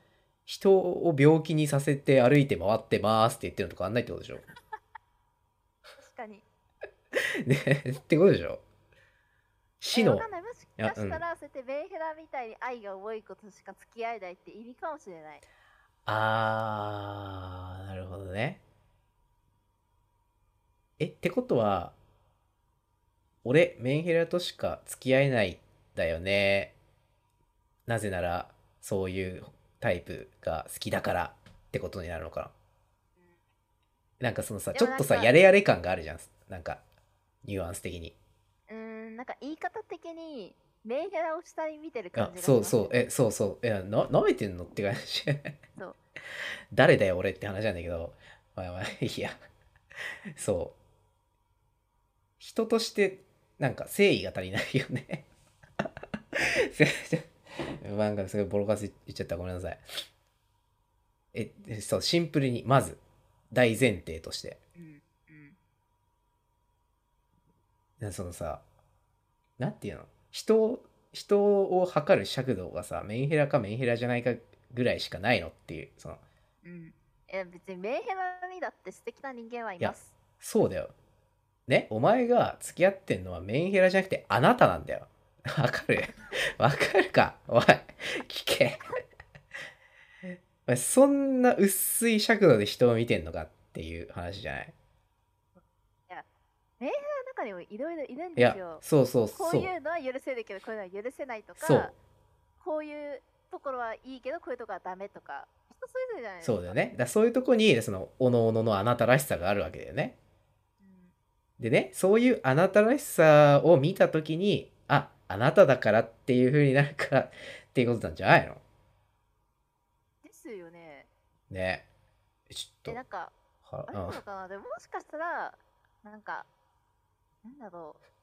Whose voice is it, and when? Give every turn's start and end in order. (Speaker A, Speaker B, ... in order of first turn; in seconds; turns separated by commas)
Speaker A: 0.5-4.4, Speaker B: 6.0-6.5, Speaker A: 7.4-8.6, Speaker A: 9.8-10.3, Speaker B: 9.9-15.4, Speaker A: 10.8-11.2, Speaker A: 16.1-18.6, Speaker A: 21.0-21.9, Speaker A: 23.4-26.8, Speaker A: 27.9-32.5, Speaker A: 34.2-36.8, Speaker B: 34.7-35.3, Speaker A: 37.4-38.1, Speaker B: 38.7-43.0, Speaker A: 42.2-45.5, Speaker A: 46.7-49.4, Speaker A: 50.4-50.8, Speaker A: 52.4-55.3, Speaker A: 55.8-59.8, Speaker A: 61.3-63.0, Speaker A: 63.5-64.6, Speaker B: 64.8-65.6, Speaker A: 68.0-68.6, Speaker A: 69.6-76.2, Speaker B: 76.6-80.2, Speaker A: 79.8-80.9, Speaker A: 81.7-89.0, Speaker A: 90.3-94.8, Speaker B: 96.8-102.0, Speaker A: 98.4-99.7, Speaker A: 101.6-101.9, Speaker B: 102.6-106.8, Speaker A: 106.4-110.2, Speaker B: 110.8-111.1, Speaker A: 111.6-118.6, Speaker B: 120.2-121.1, Speaker A: 121.5-121.9, Speaker A: 122.5-123.0, Speaker B: 122.9-123.3, Speaker A: 123.6-124.2, Speaker B: 123.9-126.5, Speaker B: 127.4-128.0